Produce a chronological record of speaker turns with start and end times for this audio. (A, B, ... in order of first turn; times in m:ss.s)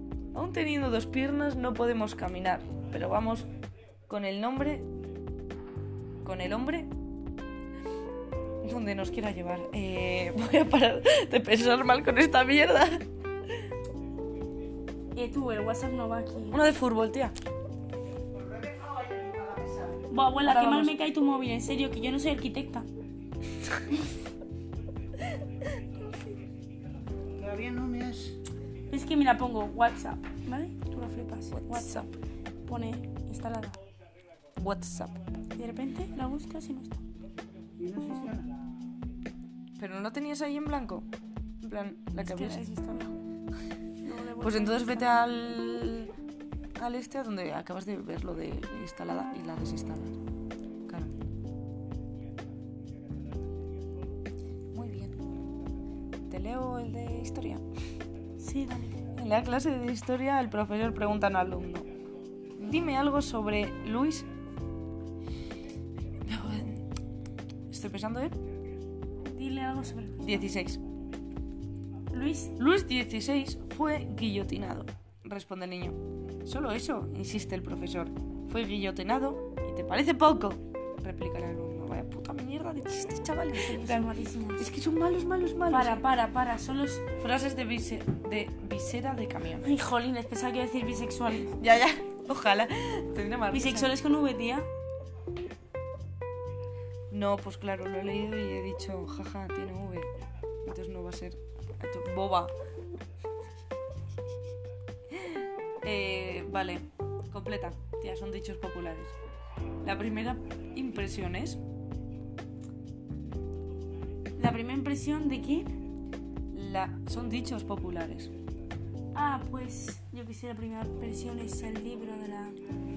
0:00.3-0:03.5 A
0:04.1-0:04.9 A
0:06.2-0:06.9 A
0:08.6-0:13.0 A
0:15.1-0:16.6 B
0:16.5-0:17.4 A
0:18.3-0:20.0 C
0:20.1-0:22.9 B
0:20.4-0:21.0 A
0:27.4-0:28.4 C
0:28.9-0:32.1 B
0:31.5-0:32.1 A
0:32.7-0:33.8 B
0:34.6-0:35.2 A
0:35.6-0:37.0 B
0:37.8-0:38.5 C
0:39.8-0:41.1 A
0:41.6-0:42.7 A
0:42.2-0:43.2 B
0:44.0-0:45.6 B
0:44.4-0:46.1 A
0:46.8-0:50.2 A
0:50.9-0:51.1 A
0:54.7-0:55.2 A
0:56.3-0:57.6 A
0:58.4-0:59.0 B
0:59.2-1:01.9 A
1:02.6-1:04.3 A
1:06.2-1:06.8 A
1:07.7-1:08.4 A
1:09.2-1:10.5 B
1:10.2-1:10.8 A
1:12.1-1:12.5 B
1:12.6-1:26.0 A
1:23.6-1:24.7 B
1:25.7-1:27.1 B
1:27.2-1:29.8 A
1:29.6-1:31.6 B
1:31.5-1:33.9 A
1:33.5-1:34.7 B
1:37.1-1:40.1 A
1:40.6-1:42.5 A
1:45.1-1:49.2 A
1:49.8-1:51.6 A
1:54.4-1:55.7 B
1:56.5-1:58.3 A
1:59.1-2:02.6 B